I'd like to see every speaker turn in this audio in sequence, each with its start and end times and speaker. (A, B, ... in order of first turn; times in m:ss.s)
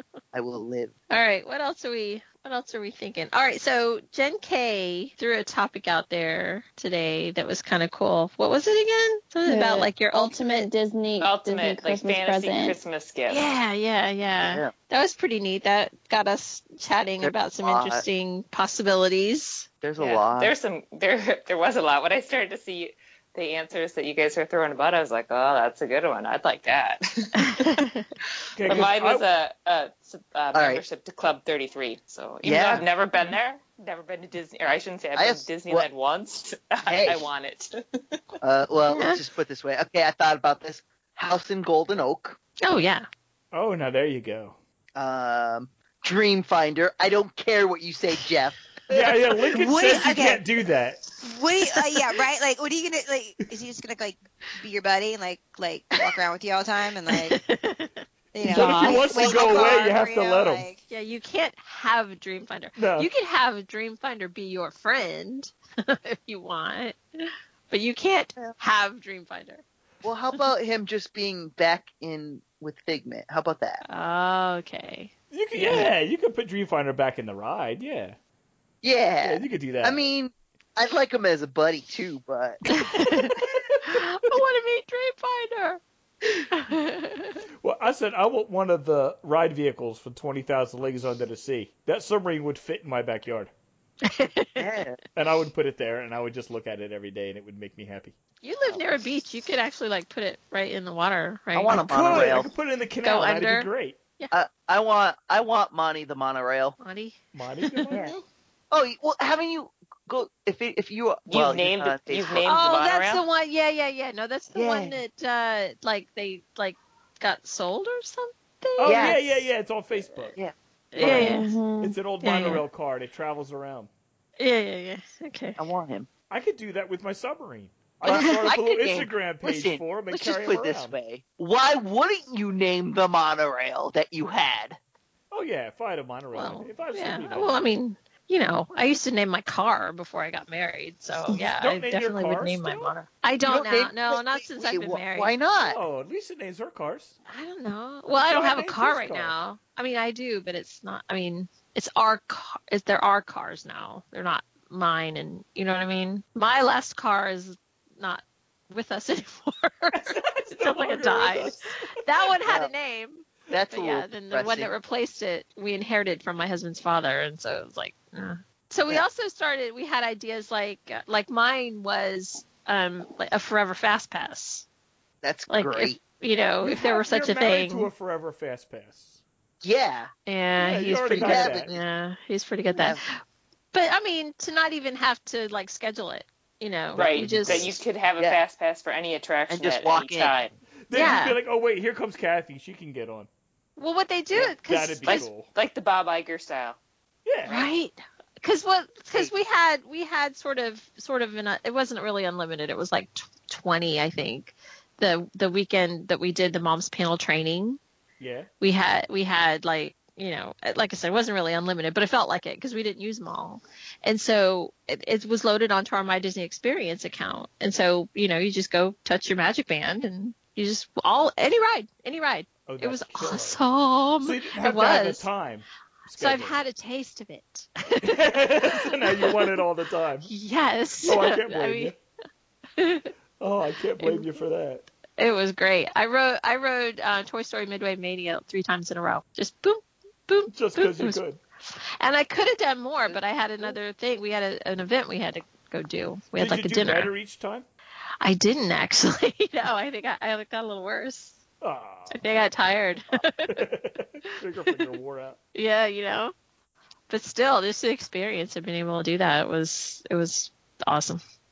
0:00.3-0:00.9 A
0:01.1-0:10.7 B
0:09.4-0:12.8 C
0:11.2-0:13.5 D
0:13.3-0:19.7 B
0:17.2-0:18.0 A
0:19.8-0:20.5 A
0:20.0-0:27.7 D
0:27.4-0:28.0 B
0:28.6-0:29.3 E
0:28.6-0:37.7 D
0:30.5-0:30.8 A
0:32.4-0:32.9 A
0:35.2-0:35.9 A
0:36.9-0:37.2 A
0:38.4-0:42.4 A
0:38.9-0:39.2 B
0:42.6-0:43.1 B
0:43.5-0:44.6 E
0:45.0-0:49.3 A
0:48.9-0:51.0 E
0:49.5-0:50.4 F
0:51.2-0:57.4 F
0:57.1-0:59.6 B
0:58.3-1:00.8 F
0:58.4-1:00.7 E
1:00.9-1:09.6 B
1:02.8-1:03.1 E
1:10.0-1:13.8 A
1:13.9-1:15.9 B
1:15.3-1:18.2 E
1:18.8-1:22.6 A
1:19.2-1:20.0 E
1:22.7-1:25.8 B
1:26.5-1:27.4 B
1:27.6-1:33.5 E
1:34.0-1:34.7 B
1:34.6-1:35.0 A
1:35.1-1:38.1 E
1:38.4-1:42.4 B
1:41.5-1:42.5 A
1:41.7-1:44.0 E
1:43.0-1:44.3 B
1:44.3-1:46.8 A
1:46.8-1:48.0 B
1:47.3-1:48.2 E
1:48.7-1:52.5 A
1:51.3-1:53.2 D
1:52.4-1:59.5 B
1:54.6-1:55.0 A
1:58.8-2:00.4 E
1:58.9-1:59.2 A
2:00.3-2:01.1 A
2:00.9-2:01.5 B
2:01.0-2:03.9 E
2:01.1-2:02.0 C
2:02.2-2:02.6 B
2:04.4-2:05.6 B
2:05.6-2:06.1 A
2:06.3-2:11.0 E
2:08.0-2:14.8 A
2:15.3-2:17.6 E
2:16.3-2:25.3 B
2:21.2-2:22.9 E
2:23.4-2:25.8 A
2:25.6-2:27.1 E
2:27.3-2:54.6 B
2:28.1-2:29.4 E
2:40.0-2:41.8 E
2:42.4-2:42.7 A
2:43.5-2:44.7 A
2:55.2-2:56.0 A
2:55.5-2:57.9 B
2:56.6-2:59.2 E
2:59.6-3:00.1 A
3:00.3-3:03.2 B
3:00.6-3:01.7 E
3:01.1-3:01.7 A
3:02.7-3:03.0 A
3:03.7-3:07.6 B
3:06.9-3:07.8 E
3:07.0-3:10.6 D
3:09.5-3:10.4 A
3:10.9-3:13.3 E
3:10.9-3:11.4 B
3:13.8-3:15.3 B
3:14.4-3:15.5 E
3:15.1-3:16.8 D
3:17.3-3:17.7 E
3:17.5-3:27.8 B
3:28.2-3:28.5 E
3:28.6-3:45.3 B
3:42.7-3:43.6 E
3:44.2-3:46.6 E
3:46.2-3:49.6 B
3:48.0-3:50.3 E
3:50.3-3:51.9 B
3:51.0-3:52.0 E
3:52.8-3:53.1 B
3:53.4-3:54.9 E
3:54.0-3:54.3 B
3:55.2-4:07.1 B
4:00.5-4:01.4 E
4:06.4-4:07.6 E
4:08.2-4:11.4 B
4:11.6-4:12.2 E
4:12.1-4:13.7 B
4:13.4-4:15.4 E
4:15.6-4:16.3 B
4:17.1-4:21.2 B